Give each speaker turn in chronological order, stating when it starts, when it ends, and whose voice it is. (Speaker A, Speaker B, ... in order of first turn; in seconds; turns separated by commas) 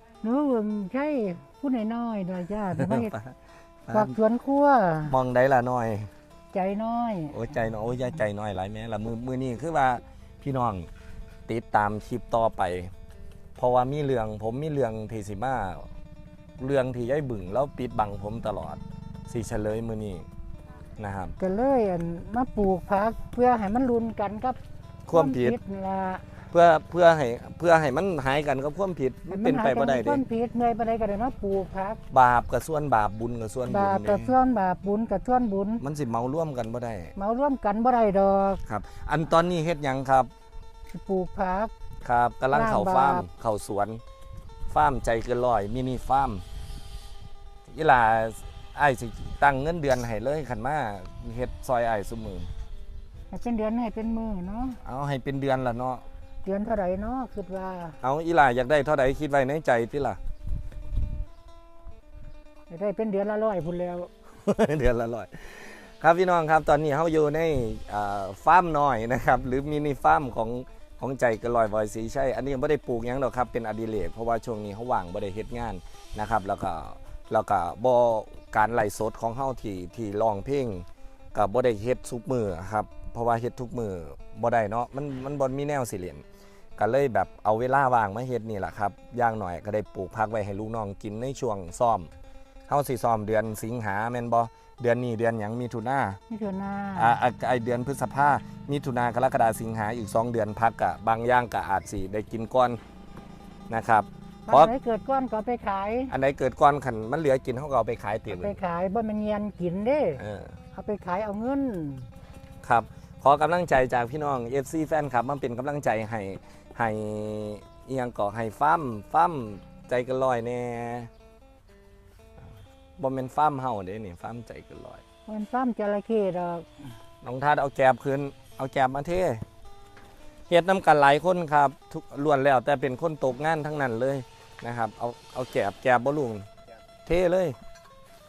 Speaker A: 0.2-3.2, Speaker B: 2.7-4.2, Speaker A: 3.9-5.2, Speaker B: 5.1-6.1, Speaker A: 6.5-7.4, Speaker B: 7.3-10.9, Speaker B: 11.5-12.9, Speaker B: 13.6-15.9, Speaker B: 16.6-20.3, Speaker B: 21.0-21.4, Speaker A: 21.4-24.6, Speaker B: 25.1-25.6, Speaker A: 25.1-26.3, Speaker B: 26.5-30.2, Speaker A: 29.3-32.0, Speaker B: 32.1-34.4, Speaker A: 33.7-35.8, Speaker B: 35.8-37.1, Speaker A: 37.1-38.6, Speaker B: 38.7-40.3, Speaker A: 40.9-41.7, Speaker B: 42.0-44.0, Speaker A: 42.5-43.3, Speaker B: 44.7-46.4, Speaker B: 47.7-52.5, Speaker A: 53.3-54.8, Speaker B: 54.8-56.0, Speaker A: 56.4-58.0, Speaker B: 58.0-60.2, Speaker A: 62.7-64.1, Speaker B: 64.4-86.2, Speaker B: 86.8-92.1, Speaker B: 92.7-96.2, Speaker A: 96.3-97.2, Speaker B: 97.0-102.8, Speaker B: 103.7-104.7, Speaker A: 104.5-106.1, Speaker B: 106.1-108.6, Speaker A: 108.3-110.2, Speaker B: 110.2-110.6, Speaker A: 110.7-112.1, Speaker B: 112.6-121.1, Speaker B: 123.0-125.0, Speaker A: 125.3-126.9, Speaker B: 127.2-129.4, Speaker B: 130.5-136.5, Speaker B: 137.0-137.6